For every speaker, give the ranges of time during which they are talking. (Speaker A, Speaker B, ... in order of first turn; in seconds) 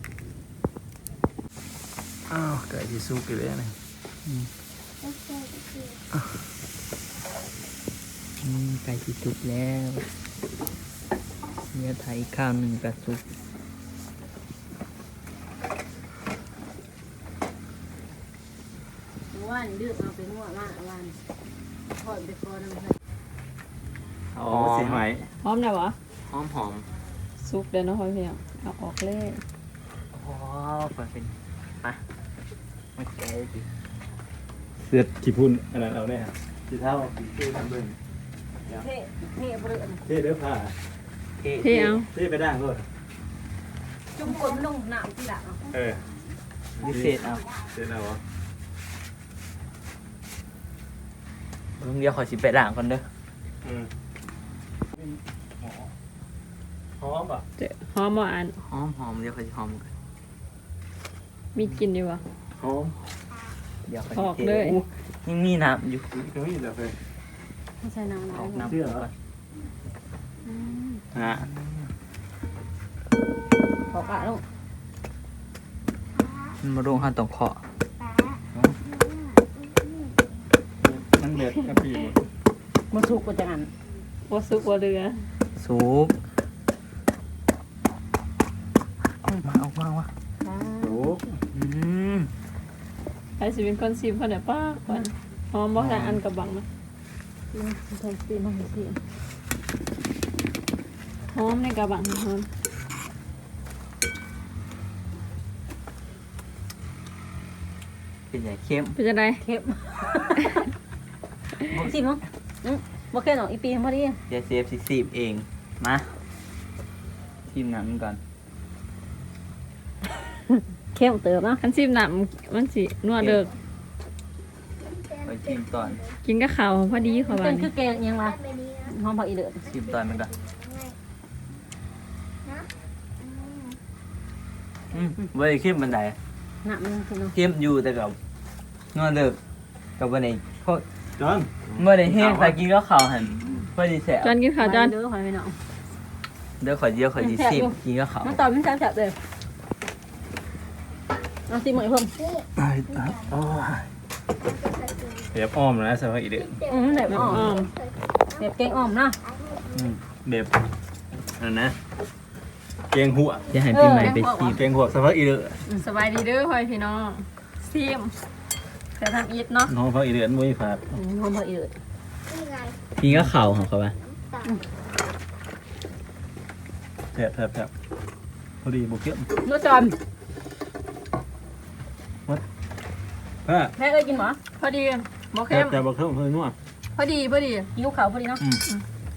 Speaker A: 2.3-3.8, 24.4-25.3, 34.8-38.0, 40.0-40.8, 42.1-42.9, 45.7-46.1, 46.8-47.1, 47.6-48.2, 53.6-53.9, 54.9-55.9, 57.0-57.5, 62.6-63.0, 66.1-67.0, 68.7-69.1, 71.2-71.5, 80.8-82.2, 90.8-91.4, 141.2-142.6, 152.6-153.9, 155.3-157.5, 159.7-160.6, 161.4-161.8, 162.9-163.6, 164.5-165.6, 169.7-170.9, 177.1-177.7, 178.6-179.3, 183.4-183.7, 185.5-186.6
Speaker B: 8.4-10.1, 11.7-13.2, 24.3-25.1, 26.2-26.9, 30.1-32.0, 33.0-33.7, 41.4-42.0, 46.8-47.5, 51.8-53.1, 58.6-59.9, 63.9-66.1, 68.3-69.1, 71.2-71.9, 76.6-77.6, 85.6-86.2, 89.4-90.1, 91.5-92.3, 95.8-96.2, 108.3-109.0, 111.7-111.9, 114.3-116.2, 117.5-118.2, 125.2-126.0, 129.7-130.3, 134.9-136.2, 137.3-138.2, 138.9-139.4, 140.0-140.8, 141.8-144.3, 146.6-148.4, 163.5-164.6, 173.0-174.0
Speaker C: 19.3-21.2, 22.0-23.0, 38.7-40.0, 44.1-45.7, 67.8-68.7, 70.5-71.0, 73.9-74.4, 82.9-83.7, 90.4-91.0, 97.5-99.0, 109.4-110.5, 111.8-114.2, 120.2-121.6, 127.3-129.7, 136.6-137.3, 144.6-145.6, 147.2-149.2, 151.5-152.2, 156.7-157.7, 158.3-159.2, 163.7-164.6, 170.9-171.8, 179.4-180.0, 183.8-184.4, 187.7-188.4
Speaker D: 25.4-26.0, 27.4-29.4, 41.6-42.1, 57.6-58.6, 61.5-62.2, 64.1-64.8, 84.3-85.2, 93.4-96.7, 101.3-102.5, 109.0-109.4, 121.6-123.5, 126.2-127.7, 144.2-144.9, 157.1-157.7, 163.9-164.5, 165.8-168.1, 168.9-169.7, 184.5-185.8, 186.9-187.7